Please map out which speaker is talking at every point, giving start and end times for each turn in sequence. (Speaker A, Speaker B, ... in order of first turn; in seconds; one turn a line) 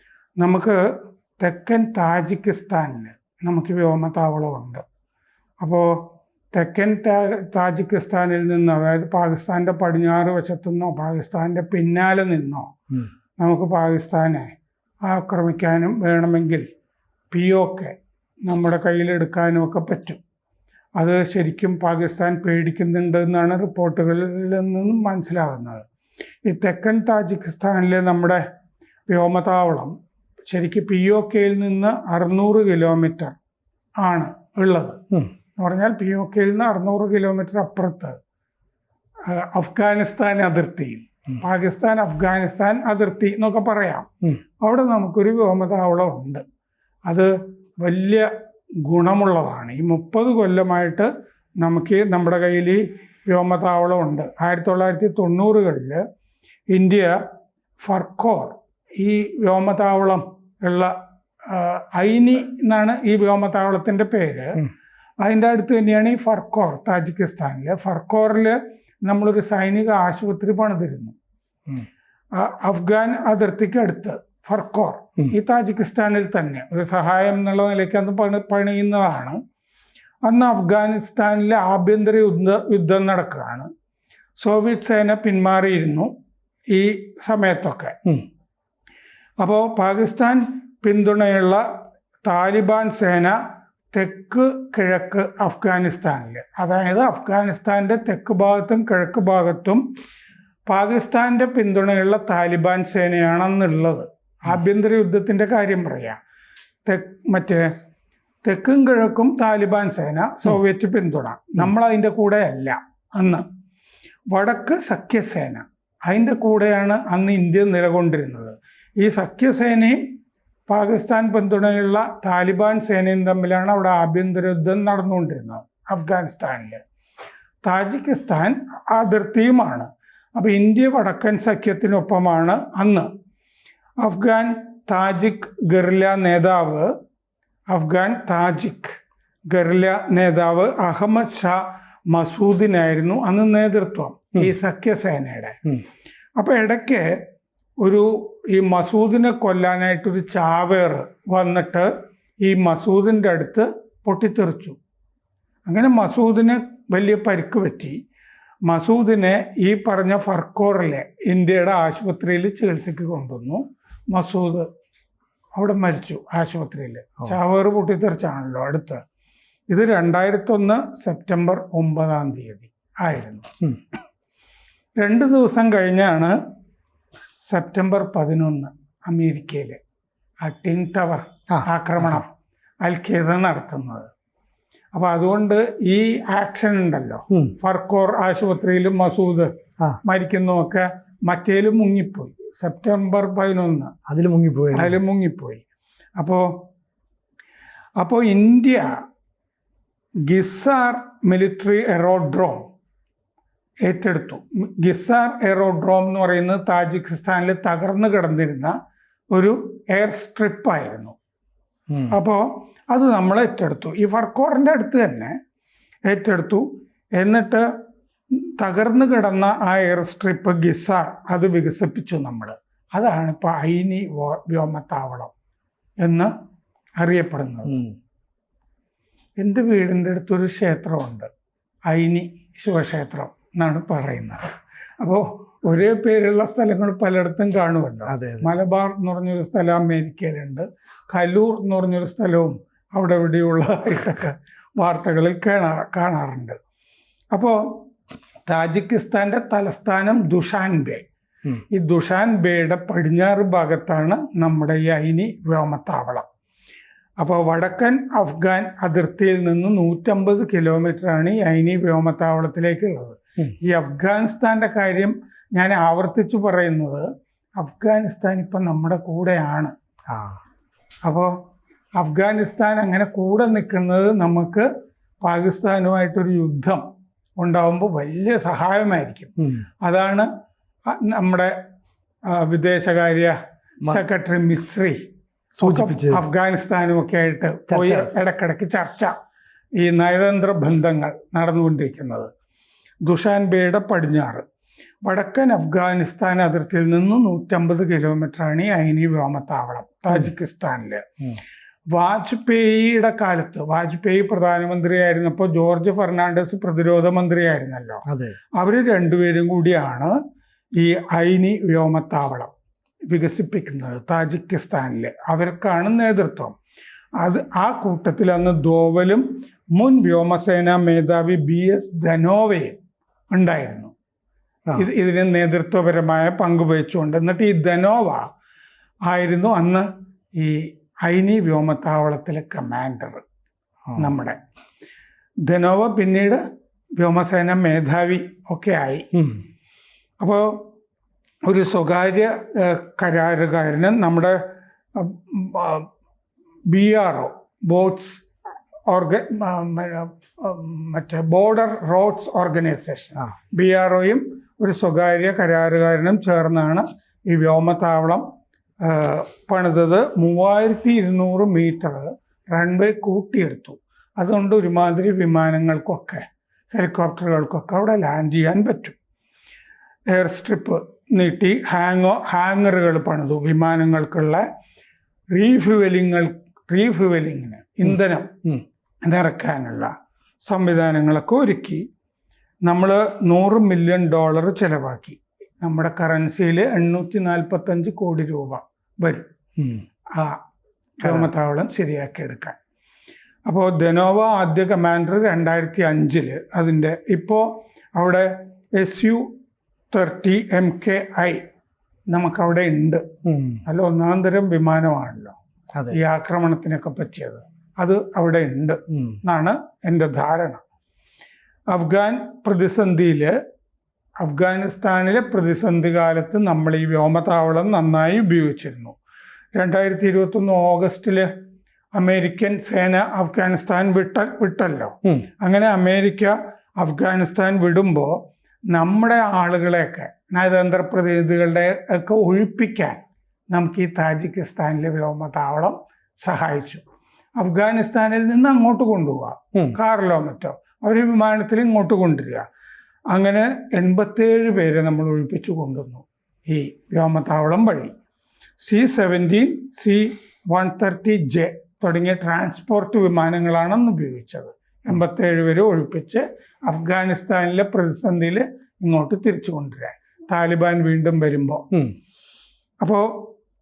Speaker A: 0.4-0.8
Speaker A: 1.4-4.8
Speaker A: 5.6-12.7
Speaker A: 13.4-14.5
Speaker A: 15.1-16.6
Speaker A: 17.3-17.9
Speaker A: 18.5-20.2
Speaker A: 21.0-25.8
Speaker A: 26.4-28.4
Speaker A: 29.1-29.9
Speaker A: 30.5-33.4
Speaker A: 34.0-35.0
Speaker A: 35.6-38.1
Speaker A: 39.3-44.1
Speaker A: 44.6-46.4
Speaker A: 47.8-48.3
Speaker A: 48.8-56.0
Speaker A: 56.7-57.1
Speaker A: 57.8-60.9
Speaker A: 61.5-64.6
Speaker A: 65.2-71.2
Speaker A: 72.3-79.4
Speaker A: 80.2-83.7
Speaker A: 84.4-86.1
Speaker A: 86.7-88.0
Speaker A: 89.4-91.6
Speaker A: 92.2-93.3
Speaker A: 93.9-99.8
Speaker A: 100.7-106.2
Speaker A: 106.8-107.6
Speaker A: 108.4-113.4
Speaker A: 114.3-120.0
Speaker A: 120.7-126.8
Speaker A: 127.6-133.1
Speaker A: 134.0-136.9
Speaker A: 137.7-139.0
Speaker A: 139.5-141.6
Speaker A: 142.1-145.6
Speaker A: 146.4-147.1
Speaker A: 147.8-151.9
Speaker A: 152.4-154.8
Speaker A: 155.7-158.0
Speaker A: 158.7-164.7
Speaker A: 165.6-169.0
Speaker A: 169.7-173.5
Speaker A: 174.9-176.3
Speaker A: 177.4-179.8
Speaker A: 180.4-182.3
Speaker B: 181.5-182.2
Speaker A: 182.8-184.1
Speaker A: 184.9-189.5
Speaker A: 190.0-193.9
Speaker B: 194.1-195.0
Speaker A: 194.7-195.6
Speaker A: 196.2-196.5
Speaker A: 198.0-198.9
Speaker A: 200.3-202.7
Speaker A: 203.8-208.7
Speaker A: 209.3-211.2
Speaker A: 212.1-215.3
Speaker A: 216.1-216.6
Speaker A: 217.2-217.6
Speaker A: 218.6-225.3
Speaker A: 226.0-226.3
Speaker A: 227.0-227.8
Speaker B: 227.7-227.9
Speaker A: 229.4-231.3
Speaker A: 231.9-246.6
Speaker B: 238.1-238.5
Speaker A: 247.3-247.8
Speaker A: 248.4-251.0
Speaker A: 251.7-256.2
Speaker A: 257.2-267.0
Speaker A: 267.6-269.7
Speaker B: 270.1-270.4
Speaker A: 271.0-271.3
Speaker A: 272.0-274.6
Speaker A: 275.2-276.8
Speaker A: 277.4-280.3
Speaker B: 279.4-279.6
Speaker A: 280.9-281.5
Speaker A: 282.3-283.3
Speaker A: 283.9-285.0
Speaker B: 285.6-286.2
Speaker A: 285.6-289.1
Speaker B: 287.7-288.1
Speaker A: 289.8-292.3
Speaker A: 293.0-294.4
Speaker A: 295.0-301.0
Speaker A: 301.9-308.0
Speaker B: 308.1-308.4
Speaker A: 308.6-310.1
Speaker A: 310.8-312.5
Speaker A: 313.1-316.5
Speaker A: 317.2-319.2
Speaker A: 319.8-322.8
Speaker A: 323.3-323.9
Speaker A: 324.7-328.2
Speaker A: 329.1-329.9
Speaker A: 330.4-333.2
Speaker A: 334.0-334.4
Speaker A: 335.5-336.4
Speaker A: 337.0-339.1
Speaker B: 339.1-339.4
Speaker A: 340.2-340.6
Speaker A: 341.5-344.4
Speaker A: 344.9-345.9
Speaker A: 346.7-348.2
Speaker A: 348.9-358.2
Speaker A: 358.8-368.9
Speaker A: 370.1-374.4
Speaker A: 375.3-378.3
Speaker A: 379.0-379.9
Speaker A: 380.4-381.8
Speaker A: 382.6-389.3
Speaker B: 389.6-389.8
Speaker A: 391.0-392.6
Speaker B: 391.0-391.3
Speaker A: 393.4-399.2
Speaker A: 399.9-401.4
Speaker A: 402.1-403.0
Speaker B: 403.2-403.6
Speaker A: 403.6-405.4
Speaker A: 405.9-410.6
Speaker B: 408.9-409.2
Speaker A: 411.7-413.3
Speaker A: 414.2-418.9
Speaker A: 419.6-421.3
Speaker A: 421.9-428.1
Speaker A: 428.7-436.8
Speaker A: 437.4-442.4
Speaker A: 443.1-447.9
Speaker A: 448.6-461.7
Speaker A: 462.8-463.3